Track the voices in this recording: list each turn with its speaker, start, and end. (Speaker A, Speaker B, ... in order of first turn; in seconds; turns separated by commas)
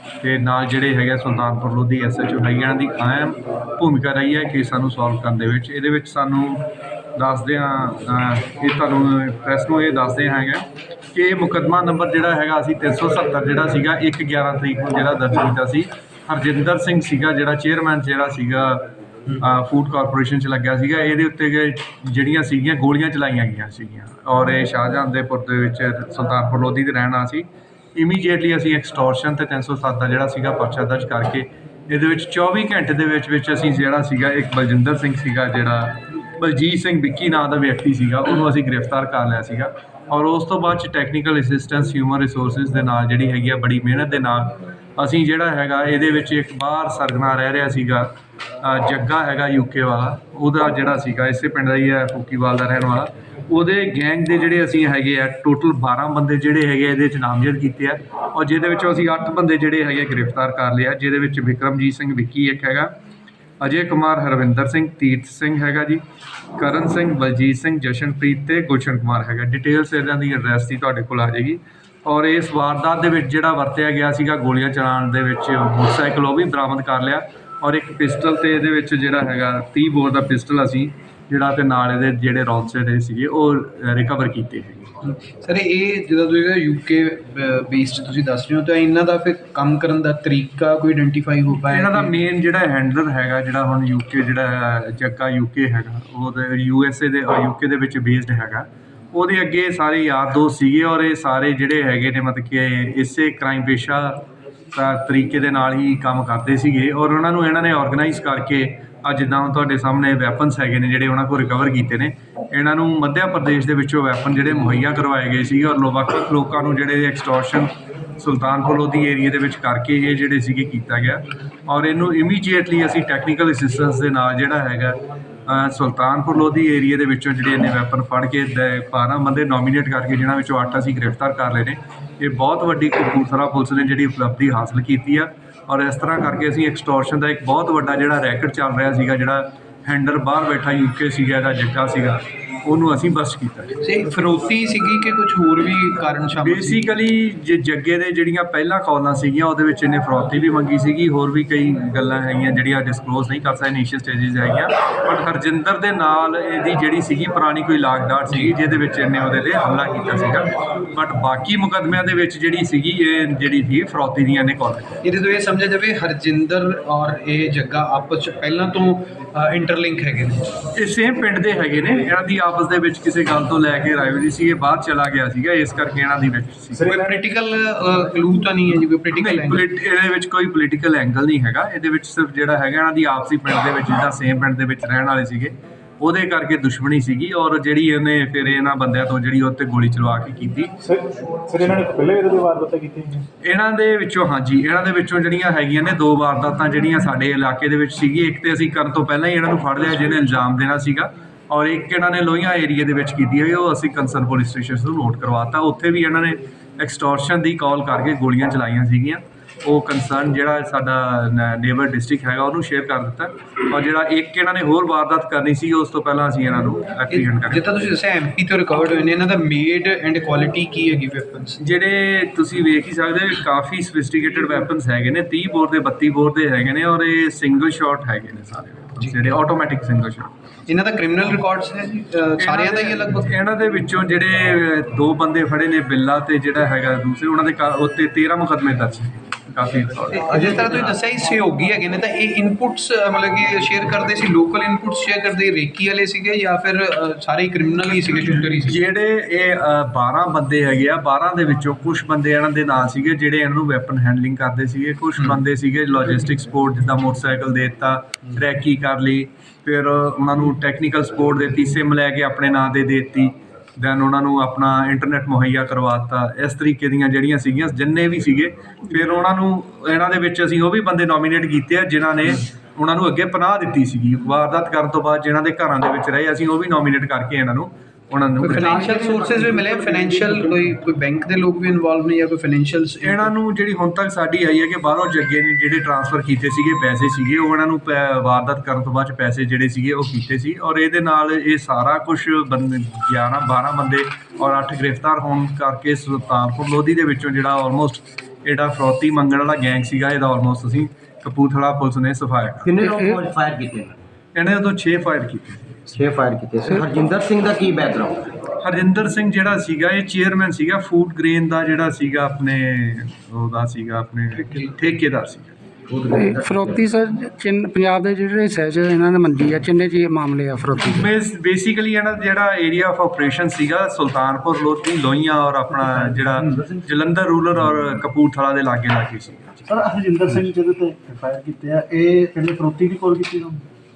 Speaker A: 0.2-62.9, Speaker A: 63.6-66.0, Speaker A: 66.6-84.9, Speaker B: 85.0-92.2, Speaker A: 91.7-143.8, Speaker B: 143.8-146.8, Speaker A: 146.4-165.0, Speaker B: 165.0-170.6, Speaker A: 170.7-177.0, Speaker B: 176.8-179.6, Speaker A: 179.1-190.8, Speaker C: 190.8-193.3, Speaker A: 193.4-217.6, Speaker B: 217.1-221.6, Speaker A: 221.6-230.4, Speaker B: 230.7-233.3, Speaker A: 232.4-240.9, Speaker B: 240.1-248.8, Speaker A: 248.6-278.9, Speaker B: 278.4-283.3, Speaker C: 278.8-280.5, Speaker A: 283.0-302.8, Speaker D: 302.6-304.0, Speaker A: 304.4-305.8, Speaker D: 305.9-308.4, Speaker A: 308.6-315.6, Speaker D: 315.9-316.9, Speaker E: 316.1-321.1, Speaker A: 320.8-329.7, Speaker C: 326.1-326.8, Speaker C: 329.7-333.6